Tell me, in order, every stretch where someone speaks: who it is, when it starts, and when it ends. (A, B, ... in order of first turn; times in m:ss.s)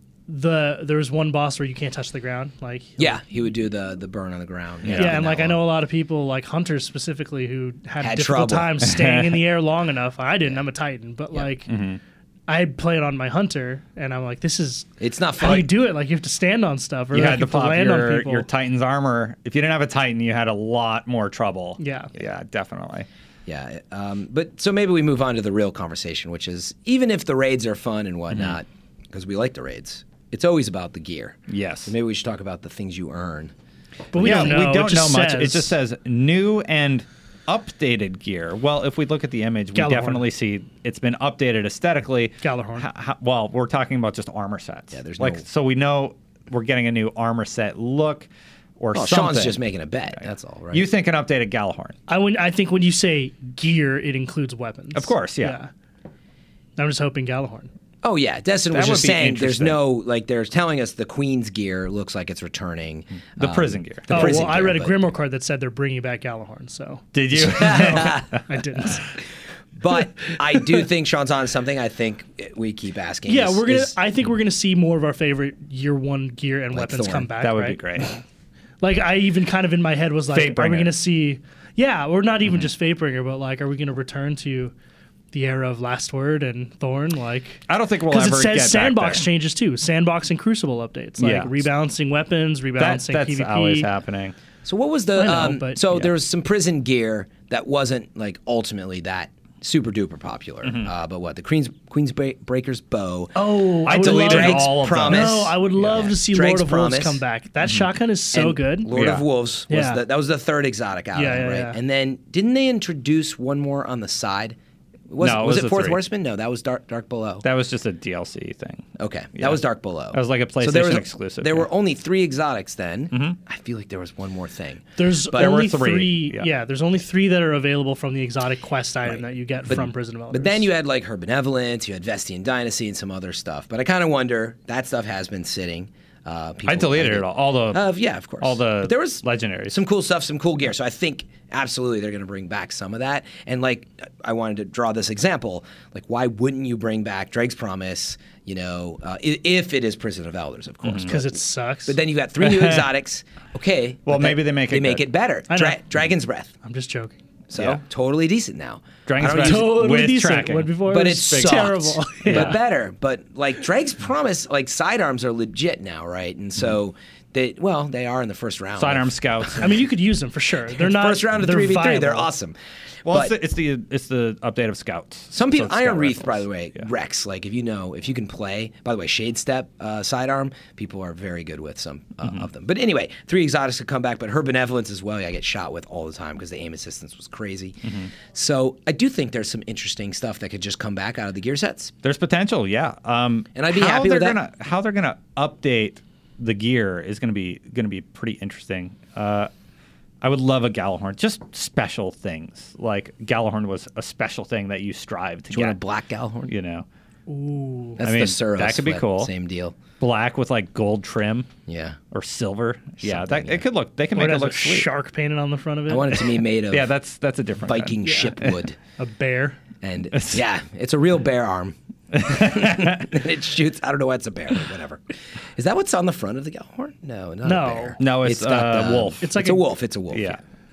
0:00.3-0:03.2 A
0:03.0-0:05.6 B
0:04.8-0:05.2 C
0:04.9-0:11.7 A
0:08.0-0:08.8 B
0:08.8-0:09.4 C
0:11.7-0:12.0 C
0:12.5-0:14.9 A
0:15.0-0:15.7 B
0:15.4-0:18.5 A
0:17.1-0:23.1 C
0:21.8-0:22.1 A
0:23.5-0:33.5 B
0:28.3-0:28.6 C
0:31.5-0:31.9 C
0:34.1-0:35.7 A
0:34.2-0:48.3 C
0:39.7-0:40.2 A
0:42.4-0:42.9 A
0:44.9-0:45.4 B
0:48.8-0:49.6 C
0:49.0-0:50.9 B
0:50.7-0:52.0 C
0:52.1-0:55.7 A
0:55.0-0:55.6 C
0:56.8-0:57.7 A
0:58.0-1:04.9 B
0:58.7-0:59.8 C
1:03.4-1:04.4 C
1:04.1-1:09.2 A
1:07.1-1:08.4 C
1:07.4-1:08.3 B
1:09.8-1:14.0 B
1:13.3-1:18.2 A
1:16.7-1:17.3 B
1:17.4-1:18.1 C
1:18.8-1:24.7 A
1:20.3-1:20.9 C
1:25.3-1:33.9 A
1:27.7-1:29.2 C
1:31.2-1:31.7 C
1:32.8-1:34.4 C
1:34.6-1:47.2 B
1:35.2-1:35.8 A
1:40.6-1:40.9 C
1:43.4-1:48.9 A
1:43.9-1:45.6 C
1:48.3-1:54.6 B
1:48.9-1:49.2 C
1:49.7-1:50.0 A
1:51.2-1:51.8 A
1:55.1-1:57.4 B
1:55.2-1:56.0 C
1:57.4-1:59.6 C
1:59.0-2:05.6 B
2:00.1-2:01.7 C
2:03.1-2:03.4 C
2:05.0-2:10.7 A
2:05.3-2:06.5 C
2:09.7-2:36.5 B
2:16.7-2:17.8 C
2:18.4-2:19.8 C
2:30.8-2:31.1 C
2:31.1-2:32.0 A
2:32.4-2:32.9 C
2:34.1-2:35.0 C
2:35.5-2:35.8 A
2:36.6-2:37.2 A
2:37.5-2:39.9 B
2:37.6-2:37.8 C
2:39.1-2:41.7 C
2:39.4-2:42.6 A
2:40.9-2:49.6 B
2:42.3-2:42.6 C
2:48.8-2:49.8 C
2:49.6-2:52.3 A
2:50.8-2:52.6 B
2:53.1-2:56.9 C
2:53.1-2:53.3 B
2:55.3-3:11.9 B
3:12.0-3:19.5 C
3:13.6-3:14.4 B
3:20.2-3:25.8 C
3:25.5-3:26.5 B
3:26.5-3:26.9 C
3:27.3-3:28.0 A
3:28.0-3:29.8 B
3:28.0-3:29.3 C
3:30.0-3:31.5 C
3:31.7-3:32.0 B
3:32.1-3:34.9 C
3:33.0-3:33.6 B
3:34.1-3:36.3 A
3:35.9-3:36.9 B
3:36.7-3:38.5 C
3:37.7-3:38.8 B
3:39.0-3:39.6 A
3:39.8-3:50.4 B
3:40.1-3:40.4 C
3:42.1-3:43.0 C
3:47.4-3:48.0 A
3:48.0-3:49.3 C
3:49.2-3:49.6 A
3:50.1-3:50.4 C